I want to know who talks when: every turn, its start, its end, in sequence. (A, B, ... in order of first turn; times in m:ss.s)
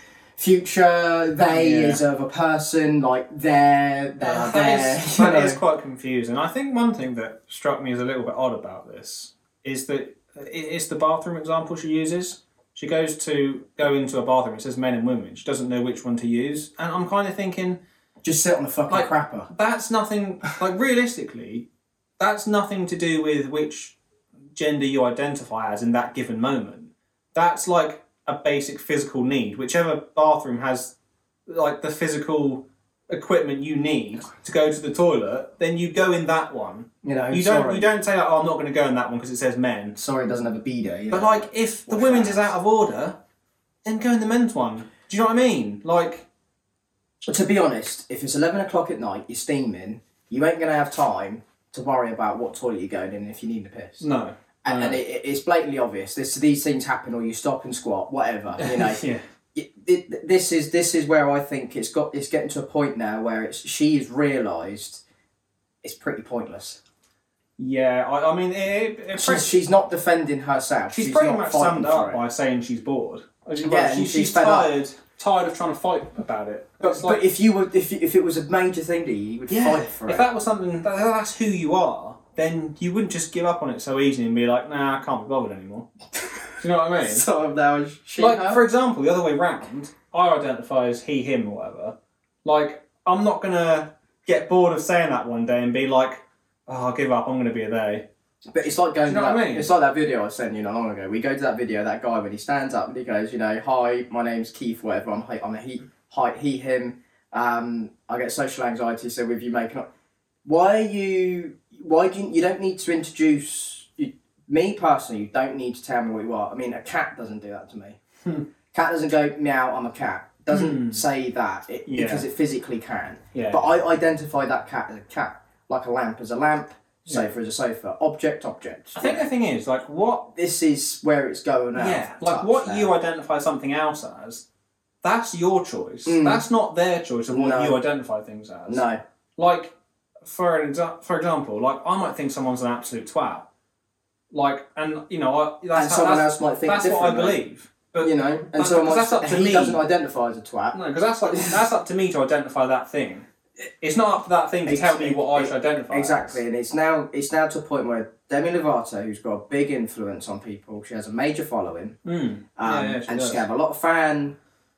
0:00.4-0:05.6 A
0:01.5-0:02.0 B
0:04.2-0:17.8 B
0:18.2-0:19.5 A
0:18.9-0:21.7 B
0:22.2-0:24.0 B
0:24.6-0:30.9 B
0:31.5-0:40.0 B
0:37.0-0:37.9 A
0:40.0-0:42.5 A
0:41.1-0:43.2 B
0:43.8-0:46.3 B
0:47.3-0:54.1 A
0:54.0-0:55.0 B
0:54.6-0:59.0 A
0:58.6-0:59.2 B
0:59.6-1:05.0 A
1:05.8-1:06.8 A
1:07.6-1:09.6 B
1:09.2-1:12.2 A
1:10.9-1:17.2 B
1:13.6-1:14.7 A
1:16.8-1:20.3 A
1:19.5-1:25.9 B
1:26.6-1:27.3 B
1:27.0-1:28.6 A
1:28.2-1:38.1 B
1:38.5-1:49.9 A
1:39.1-1:39.7 B
1:50.4-1:58.0 A
1:58.7-2:09.2 A
2:00.5-2:01.0 B
2:01.9-2:02.3 B
2:03.3-2:03.7 B
2:09.0-2:10.3 B
2:10.3-2:12.9 A
2:11.8-2:14.5 B
2:15.0-2:18.8 B
2:16.0-2:16.4 A
2:17.3-2:17.8 A
2:18.7-2:19.0 A
2:19.4-2:23.5 B
2:24.3-2:29.8 B
2:25.7-2:27.4 A
2:28.0-2:31.6 A
2:30.7-2:33.3 B
2:33.8-2:36.4 B
2:34.7-2:42.0 A
2:42.0-2:43.4 B
2:42.6-2:44.4 A